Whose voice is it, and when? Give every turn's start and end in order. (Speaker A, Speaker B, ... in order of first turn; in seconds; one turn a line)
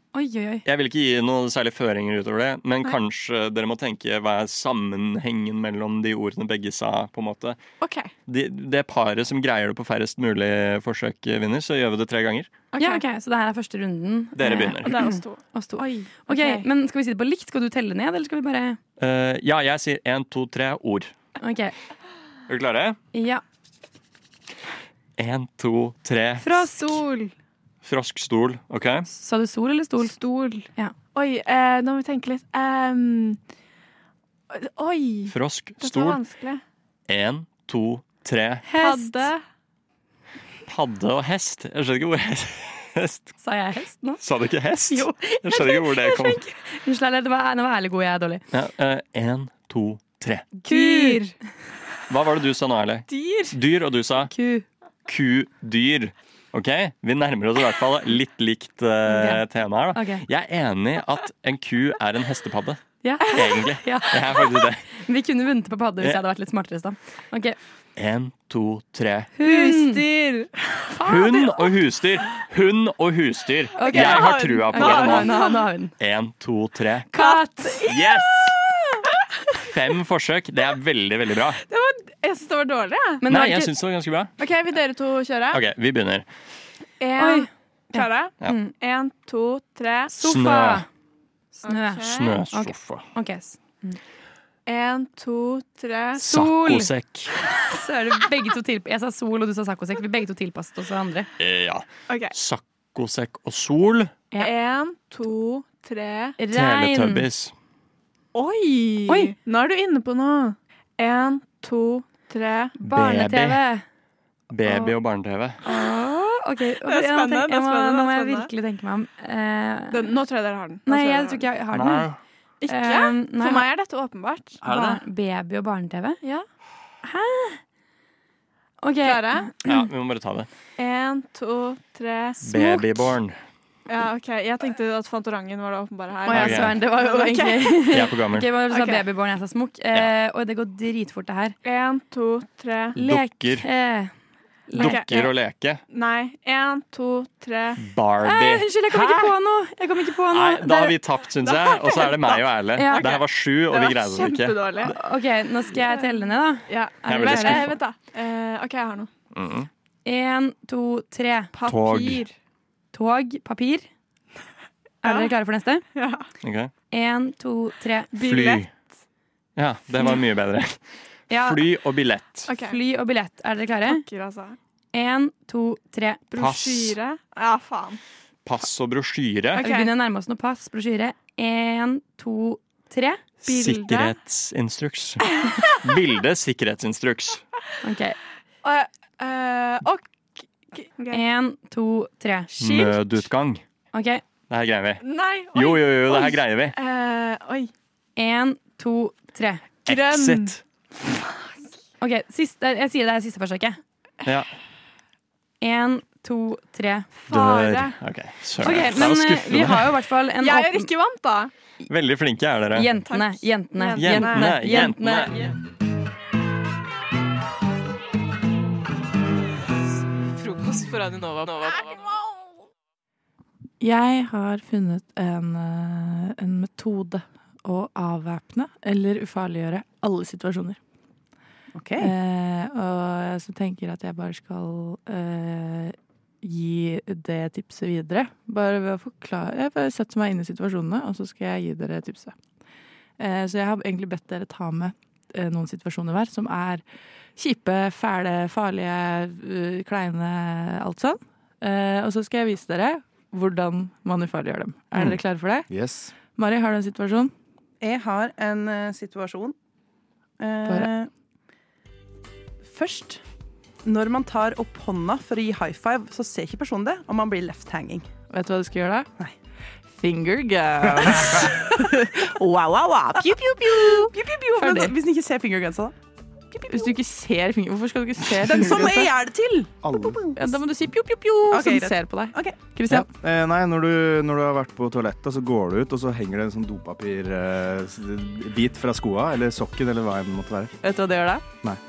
Speaker A: 0.1-0.6
Speaker B: 0.7-7.6
Speaker C: 7.8-8.1
Speaker B: 8.3-12.5
Speaker C: 12.7-13.0
Speaker A: 12.8-18.8
Speaker B: 14.4-15.1
Speaker C: 14.8-16.7
Speaker B: 19.0-21.1
Speaker A: 21.4-21.7
Speaker B: 22.5-23.0
Speaker A: 23.1-23.4
Speaker B: 25.2-27.0
Speaker A: 26.4-27.0
Speaker C: 26.9-27.3
Speaker B: 27.8-29.1
Speaker A: 29.1-30.2
Speaker C: 30.0-33.4
Speaker C: 34.5-36.6
Speaker B: 35.3-36.2
Speaker B: 37.1-38.7
Speaker A: 38.7-39.3
Speaker C: 38.7-39.4
Speaker B: 40.7-43.3
Speaker A: 43.4-44.2
Speaker B: 44.2-46.4
Speaker A: 44.9-48.4
Speaker B: 48.5-50.5
Speaker A: 50.7-51.2
Speaker C: 50.7-51.3
Speaker B: 52.1-54.3
Speaker C: 53.1-53.5
Speaker A: 54.3-54.6
Speaker B: 55.1-62.8
Speaker A: 59.1-59.4
Speaker A: 59.9-60.2
Speaker A: 63.0-67.6
Speaker B: 63.3-64.8
Speaker B: 68.0-69.3
Speaker A: 69.4-70.0
Speaker C: 69.4-70.5
Speaker A: 71.0-71.5
Speaker B: 71.0-75.4
Speaker A: 73.8-75.9
Speaker C: 73.8-75.6
Speaker B: 76.0-77.1
Speaker A: 77.1-77.9
Speaker C: 77.2-78.7
Speaker B: 77.9-78.5
Speaker B: 79.6-81.6
Speaker C: 81.7-83.2
Speaker A: 83.2-83.7
Speaker B: 83.3-84.3
Speaker C: 84.4-85.6
Speaker B: 85.5-86.3
Speaker C: 87.0-90.2
Speaker A: 87.2-88.7
Speaker A: 90.2-90.9
Speaker B: 90.2-90.8
Speaker A: 91.6-94.0
Speaker C: 91.6-92.3
Speaker B: 92.0-93.0
Speaker C: 94.7-96.2
Speaker B: 96.2-97.3
Speaker A: 96.2-96.9
Speaker A: 97.7-101.3
Speaker B: 101.4-104.2
Speaker C: 104.3-106.4
Speaker A: 106.4-107.2
Speaker B: 106.5-107.5
Speaker C: 108.3-112.8
Speaker A: 109.1-109.3
Speaker A: 112.8-113.8
Speaker B: 112.9-113.6
Speaker B: 114.5-115.6
Speaker A: 114.7-114.9
Speaker C: 115.7-118.5
Speaker A: 116.3-120.1
Speaker C: 119.9-121.4
Speaker A: 120.9-122.1
Speaker B: 121.7-122.2
Speaker C: 122.6-124.6
Speaker A: 122.7-123.7
Speaker B: 124.6-125.0
Speaker A: 124.7-126.2
Speaker A: 127.0-127.6
Speaker A: 128.8-129.8
Speaker C: 129.0-129.5
Speaker B: 129.7-130.5
Speaker C: 130.8-132.4
Speaker B: 132.4-133.4
Speaker C: 133.9-137.9
Speaker A: 136.3-141.6
Speaker B: 136.3-136.8
Speaker B: 137.9-138.5
Speaker C: 138.7-139.0
Speaker C: 141.6-142.9
Speaker B: 142.9-143.7
Speaker A: 142.9-144.1
Speaker A: 144.7-145.1
Speaker C: 144.8-145.3
Speaker B: 144.8-145.8
Speaker C: 145.9-147.8
Speaker B: 147.8-149.2
Speaker A: 148.2-150.9
Speaker B: 150.3-154.9
Speaker C: 151.4-154.9
Speaker A: 152.8-153.1
Speaker A: 154.9-157.7
Speaker C: 155.8-159.1
Speaker B: 157.1-157.8
Speaker B: 159.3-159.7
Speaker A: 160.1-161.5
Speaker C: 161.5-162.3
Speaker B: 161.7-162.2
Speaker A: 162.9-163.9
Speaker A: 165.0-165.9
Speaker C: 165.0-165.3
Speaker C: 165.9-166.2
Speaker B: 166.4-166.7
Speaker A: 166.9-168.2
Speaker C: 168.2-168.6
Speaker B: 168.2-168.7
Speaker B: 169.6-172.5
Speaker A: 171.3-171.6
Speaker C: 172.5-172.8
Speaker A: 172.6-174.0
Speaker C: 173.8-174.6
Speaker A: 174.9-176.3
Speaker C: 176.3-178.0
Speaker B: 176.4-177.0
Speaker B: 178.4-179.7
Speaker C: 179.5-179.9
Speaker A: 179.6-183.3
Speaker B: 183.4-187.4
Speaker C: 183.4-184.2
Speaker A: 187.8-188.2
Speaker C: 188.6-191.2
Speaker A: 191.1-192.6
Speaker B: 192.6-193.6
Speaker C: 192.7-192.9
Speaker A: 193.9-194.2
Speaker B: 194.5-196.8
Speaker C: 195.0-197.7
Speaker A: 198.2-199.7
Speaker B: 199.9-200.6
Speaker C: 199.9-200.6
Speaker A: 202.0-203.8
Speaker A: 205.6-207.1
Speaker C: 207.2-207.9
Speaker B: 207.3-210.0
Speaker A: 208.6-210.9
Speaker C: 210.4-211.5
Speaker B: 211.9-212.9
Speaker A: 212.7-215.4
Speaker C: 213.1-215.5
Speaker B: 214.0-215.5
Speaker C: 221.5-222.0
Speaker D: 223.8-230.8
Speaker E: 231.8-232.1
Speaker D: 232.0-242.3
Speaker D: 243.2-246.8
Speaker D: 247.4-255.7
Speaker F: 254.9-256.1
Speaker D: 256.2-257.3
Speaker E: 257.8-259.6
Speaker E: 260.4-261.1
Speaker E: 262.6-263.2
Speaker E: 263.9-268.1
Speaker D: 268.3-269.1
Speaker D: 269.9-274.9
Speaker E: 273.6-275.9
Speaker D: 276.5-279.1
Speaker E: 278.4-280.5
Speaker F: 279.8-280.2
Speaker D: 280.4-283.1
Speaker E: 281.5-282.7
Speaker F: 282.9-290.7
Speaker D: 290.8-291.5